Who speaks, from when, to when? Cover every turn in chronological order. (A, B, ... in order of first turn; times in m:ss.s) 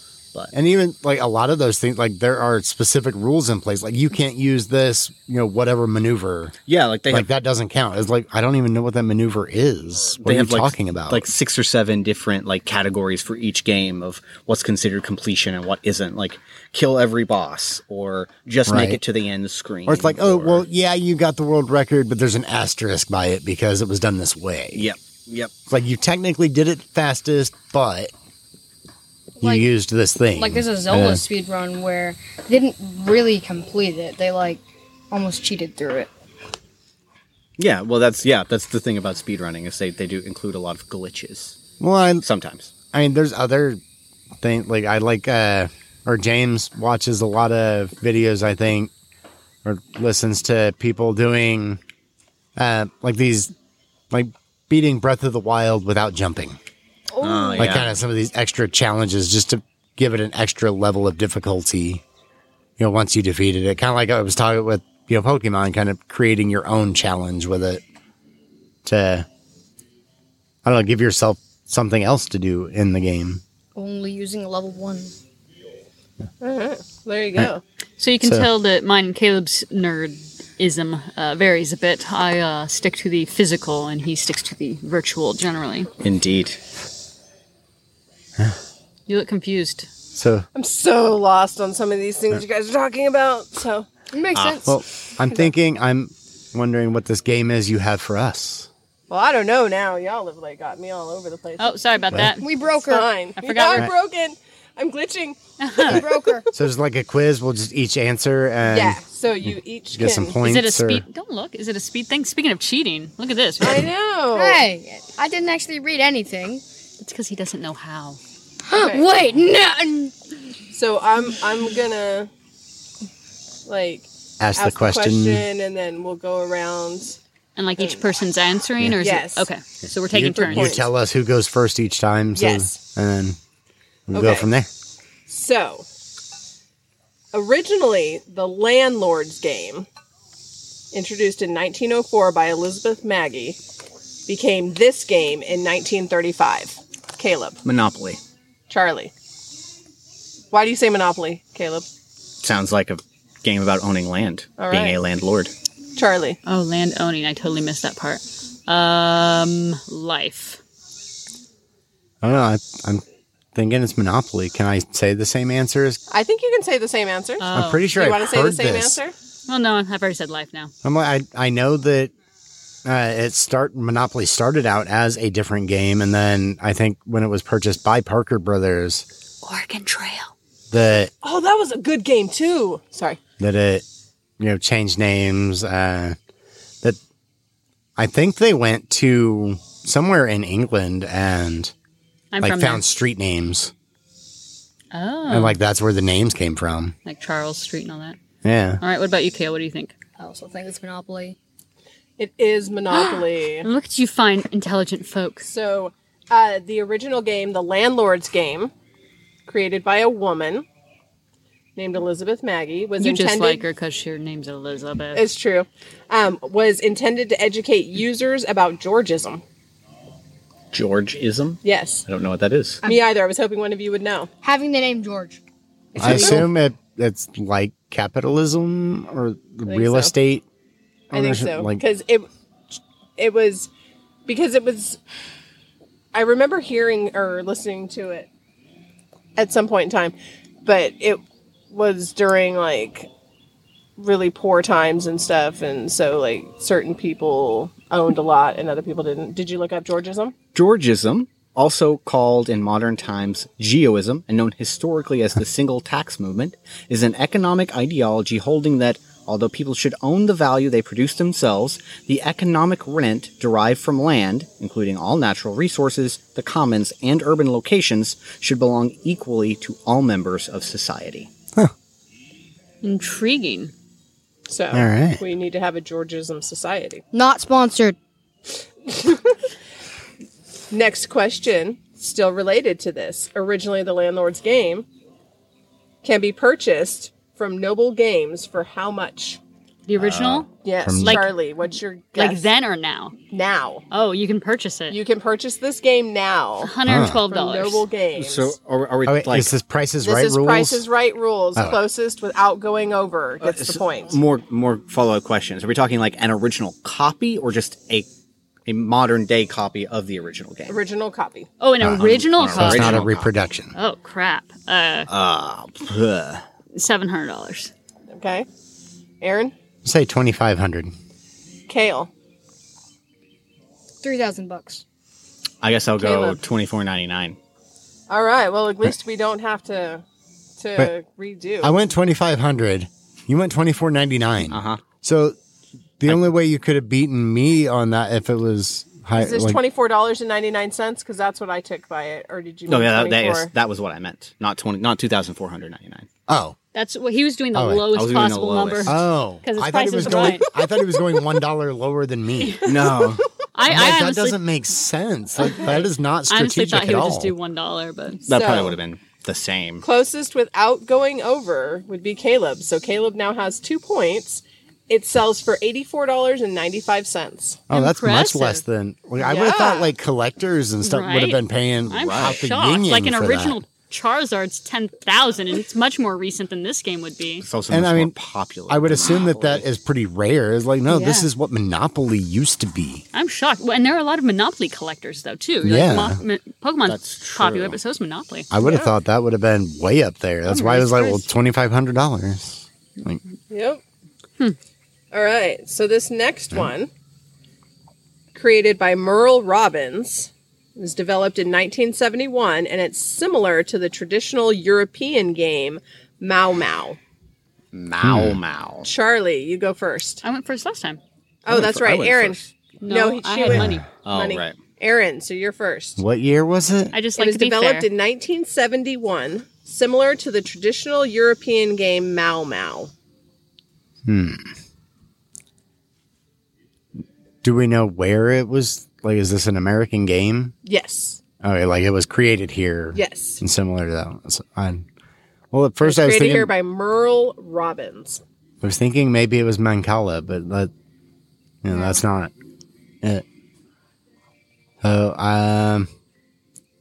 0:00.5-0:06.6 A
0:06.6-0:07.3 B
0:07.1-0:11.3 A
0:10.1-0:20.7 B
0:18.7-0:19.0 A
0:19.8-0:24.9 A
0:24.7-0:25.5 B
0:25.7-0:28.1 A
0:29.4-0:29.7 C
0:29.4-0:31.2 A
0:30.3-0:36.1 C
0:37.6-0:41.6 B
0:41.8-0:42.2 A
0:42.2-0:42.7 B
0:42.9-0:43.8 A
0:44.4-0:48.9 A
0:49.6-0:51.8 A
0:52.6-0:53.5 A
0:54.1-0:56.6 A
0:57.1-0:57.8 C
0:57.2-0:58.0 B
0:57.6-1:02.0 A
1:02.8-1:07.8 A
1:08.8-1:09.3 A
1:10.6-1:13.4 A
1:13.7-1:15.1 C
1:16.4-1:17.6 D
1:18.0-1:25.9 E
1:18.2-1:18.5 A
1:26.0-1:26.6 B
1:29.1-1:29.9 E
1:30.1-1:30.5 A
1:30.5-1:33.9 D
1:34.1-1:34.7 C
1:34.3-1:34.7 B
1:34.6-1:38.7 A
1:39.1-1:41.8 D
1:41.6-1:42.5 E
1:42.1-1:42.4 A
1:42.4-1:43.1 C
1:42.8-1:46.4 D
1:43.4-1:43.9 E
1:45.6-1:46.1 E
1:45.8-1:46.5 C
1:46.5-1:51.0 A
1:48.6-1:50.4 D
1:50.4-1:53.9 E
1:53.6-1:54.6 D
1:54.3-1:56.6 C
1:57.0-1:58.2 E
1:58.6-2:00.1 C
1:58.7-1:59.0 D
2:00.7-2:02.3 D
2:03.6-2:07.2 D
2:04.4-2:05.4 A
2:07.6-2:10.8 E
2:07.8-2:08.0 D
2:09.0-2:09.5 D
2:10.1-2:13.4 A
2:10.3-2:10.9 D
2:12.4-2:12.8 D
2:14.1-2:14.7 A
2:14.1-2:14.5 D
2:15.3-2:15.8 D
2:17.3-2:19.9 D
2:20.9-2:23.6 D
2:24.3-2:27.6 D
2:27.6-2:28.2 B
2:28.7-2:29.1 D
2:30.5-2:31.9 D
2:32.4-2:35.5 B
2:34.6-2:35.0 D
2:36.0-2:36.4 D
2:36.4-2:40.6 E
2:42.2-2:46.0 A
2:46.1-2:49.1 D
2:47.4-2:47.9 E
2:47.5-2:49.0 A
2:49.5-2:50.7 E
2:50.8-2:52.1 A
2:52.8-2:59.0 A
2:59.4-3:00.3 E
3:00.7-3:01.1 A
3:01.2-3:03.2 D
3:03.4-3:03.8 A
3:04.4-3:06.2 A
3:08.0-3:11.7 A
3:12.3-3:12.8 E
3:12.4-3:13.7 A
3:14.9-3:15.6 E
3:15.3-3:16.9 A
3:17.0-3:18.2 E
3:18.4-3:18.8 A
3:18.8-3:19.9 E
3:20.2-3:21.4 C
3:22.2-3:23.7 D
3:22.9-3:25.5 E
3:25.4-3:28.7 D
3:29.4-3:30.6 D
3:31.8-3:33.6 D
3:33.0-3:35.2 E
3:35.1-3:39.4 D
3:40.7-3:42.8 B
3:41.6-3:42.0 D
3:42.8-3:44.3 D
3:44.4-3:45.4 C
3:45.9-3:46.5 D
3:46.0-3:46.4 C
3:46.0-3:50.4 A
3:49.7-3:50.1 D
3:51.1-3:51.8 A
3:51.1-3:52.3 D
3:53.2-3:53.7 D
3:54.3-3:55.0 D
3:56.1-3:58.3 D
3:59.4-4:03.1 D
4:04.0-4:10.3 D
4:10.5-4:31.3 B
4:32.8-4:33.7 E
4:34.5-4:37.0 D
4:34.7-4:35.2 A
4:37.1-4:38.0 C
4:38.9-4:39.3 D
4:40.7-4:44.8 D
4:46.0-4:49.4 D
4:49.9-4:53.2 E
4:50.0-4:50.5 B
4:50.6-4:52.5 D
4:50.8-4:51.2 A
4:53.3-4:53.8 D
4:53.9-4:55.0 E
4:54.9-4:56.7 D
4:56.6-4:57.9 E
4:56.8-4:57.2 A
4:57.3-4:58.5 D
4:58.1-4:59.5 B
4:59.0-5:00.8 A
5:00.0-5:04.2 D
5:03.4-5:08.1 B
5:08.6-5:10.8 B
5:10.7-5:11.5 D
5:11.6-5:13.1 E
5:11.8-5:13.3 B
5:12.5-5:13.7 A
5:13.7-5:15.1 E
5:15.1-5:16.4 B
5:16.7-5:17.7 E
5:18.1-5:18.5 D
5:19.2-5:19.5 D
5:19.8-5:20.9 A
5:21.7-5:22.1 D
5:24.0-5:24.8 C
5:25.6-5:27.4 B
5:26.0-5:26.4 D
5:28.1-5:30.0 D
5:30.6-5:31.7 D
5:31.6-5:35.4 A
5:34.5-5:34.8 B
5:36.0-5:39.6 A
5:39.2-5:43.5 D
5:42.7-5:46.1 B
5:46.3-5:46.6 A
5:46.7-5:50.5 E
5:47.5-5:47.8 A
5:47.9-5:49.0 B
5:48.8-5:53.0 A
5:52.6-5:53.2 B
5:53.5-5:54.4 E
5:53.6-5:57.3 A
5:55.4-5:58.2 E
5:55.4-5:55.8 D
5:58.2-5:58.8 D
5:58.2-5:59.8 B
5:59.8-6:07.6 D
6:07.7-6:13.6 A
6:07.7-6:08.6 E
6:09.2-6:09.9 D
6:10.8-6:17.4 E
6:11.9-6:12.4 B
6:17.4-6:19.6 B
6:17.7-6:18.2 A
6:18.7-6:23.0 A
6:20.9-6:21.3 E
6:23.1-6:28.5 E
6:25.6-6:26.2 A
6:26.8-6:27.8 B
6:28.5-6:33.2 A
6:28.6-6:28.9 D
6:30.5-6:31.2 E
6:33.5-6:33.8 D
6:35.1-6:36.9 D
6:38.3-6:47.0 D
6:47.7-6:48.9 B
6:48.0-6:48.4 A
6:48.8-6:50.2 D
6:50.2-6:51.0 E
6:51.4-6:56.0 D
6:51.5-6:52.5 B
6:52.8-6:53.8 E
6:53.4-6:53.8 A
6:54.0-6:54.6 B
6:56.0-6:57.0 A
6:56.9-6:57.9 E
6:57.2-7:02.9 D
7:04.0-7:04.5 A
7:07.4-7:10.5 A
7:10.6-7:11.2 D
7:11.4-7:14.8 A
7:12.9-7:13.4 D
7:15.5-7:16.5 A
7:15.8-7:18.2 D
7:18.6-7:20.7 A
7:21.6-7:22.3 A
7:21.7-7:22.0 C
7:24.8-7:25.9 A